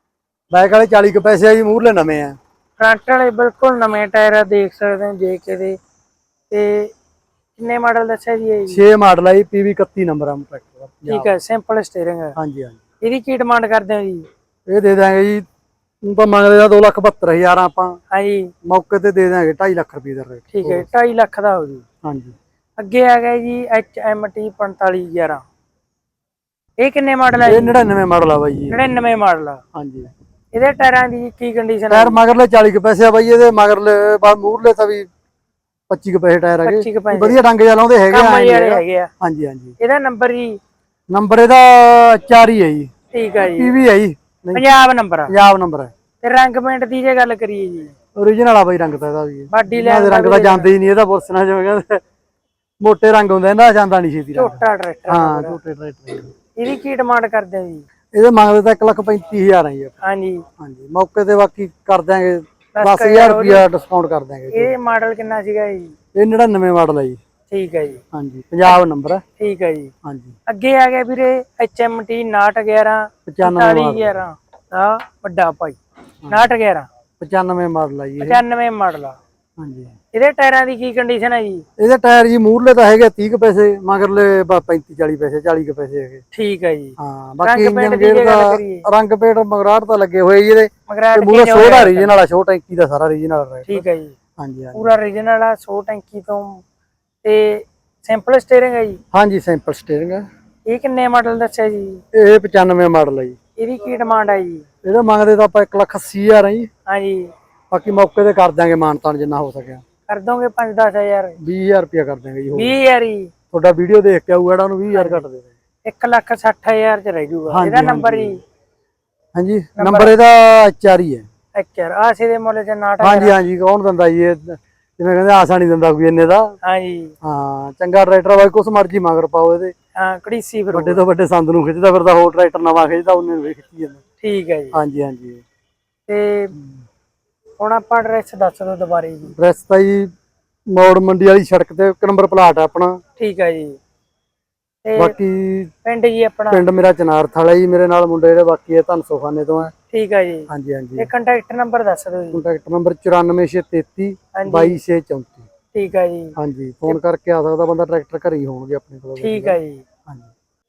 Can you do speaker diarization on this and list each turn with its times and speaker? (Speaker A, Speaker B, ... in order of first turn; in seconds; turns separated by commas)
Speaker A: 0.5-2.4, Speaker B: 2.8-5.8, Speaker B: 6.5-6.9, Speaker B: 7.6-8.8, Speaker A: 8.7-11.3, Speaker B: 11.1-12.3, Speaker A: 12.4-12.8, Speaker B: 13.0-14.2, Speaker A: 14.7-15.4, Speaker A: 16.0-18.0, Speaker B: 18.1-18.5, Speaker A: 18.6-20.9, Speaker B: 20.5-21.8, Speaker A: 22.0-22.3, Speaker B: 22.8-25.4, Speaker B: 26.8-27.8, Speaker A: 27.4-28.8, Speaker B: 28.7-29.6, Speaker A: 29.7-30.1, Speaker B: 30.5-32.2, Speaker A: 31.9-35.1, Speaker A: 35.9-39.8, Speaker B: 36.6-37.4, Speaker B: 38.1-39.1, Speaker B: 39.8-40.6, Speaker A: 41.1-42.9, Speaker B: 43.1-43.8, Speaker A: 43.4-44.6, Speaker B: 44.5-45.3, Speaker A: 45.3-45.9, Speaker B: 46.2-47.9, Speaker A: 48.1-52.0, Speaker B: 49.5-50.7, Speaker A: 52.8-56.3, Speaker B: 54.3-55.6, Speaker B: 56.5-57.8, Speaker A: 58.1-60.0, Speaker B: 60.0-60.4, Speaker A: 60.6-64.7, Speaker B: 62.8-63.6, Speaker B: 64.5-65.9, Speaker A: 66.1-67.2, Speaker B: 67.5-68.0, Speaker A: 68.1-69.2, Speaker B: 69.4-69.9, Speaker A: 70.0-70.3, Speaker B: 70.5-76.8, Speaker A: 73.2-74.2, Speaker A: 76.2-76.5, Speaker A: 77.2-78.4, Speaker B: 78.2-79.2, Speaker A: 79.6-79.9, Speaker B: 80.1-81.6, Speaker A: 81.8-86.2, Speaker B: 86.3-88.8, Speaker A: 87.0-93.8, Speaker B: 90.9-92.1, Speaker B: 93.7-94.1, Speaker A: 94.4-94.9, Speaker B: 94.7-96.6, Speaker B: 97.2-99.0, Speaker A: 99.1-100.2, Speaker B: 100.7-102.0, Speaker A: 102.1-103.3, Speaker B: 103.6-104.7, Speaker A: 104.8-106.7, Speaker B: 106.9-107.3, Speaker A: 107.7-109.8, Speaker B: 110.1-111.4, Speaker A: 111.4-112.7, Speaker B: 112.5-113.3, Speaker A: 113.5-115.5, Speaker B: 114.9-115.2, Speaker B: 115.8-118.4, Speaker A: 117.5-118.4, Speaker A: 119.3-121.2, Speaker B: 119.8-120.1, Speaker B: 121.5-123.3, Speaker A: 123.0-126.5, Speaker B: 126.6-127.1, Speaker A: 127.2-129.7, Speaker B: 129.9-131.0, Speaker A: 130.7-134.0, Speaker B: 134.2-134.8, Speaker A: 134.7-135.4, Speaker B: 136.1-136.5, Speaker A: 136.5-136.8, Speaker B: 137.6-139.3, Speaker A: 139.3-140.1, Speaker A: 140.7-143.0, Speaker B: 143.2-143.8, Speaker B: 144.8-145.2, Speaker A: 144.9-145.7, Speaker B: 145.8-146.6, Speaker A: 146.5-149.7, Speaker B: 149.9-152.4, Speaker A: 150.5-151.1, Speaker A: 152.3-155.4, Speaker B: 154.3-154.8, Speaker B: 155.7-156.3, Speaker A: 156.4-160.3, Speaker B: 159.2-159.8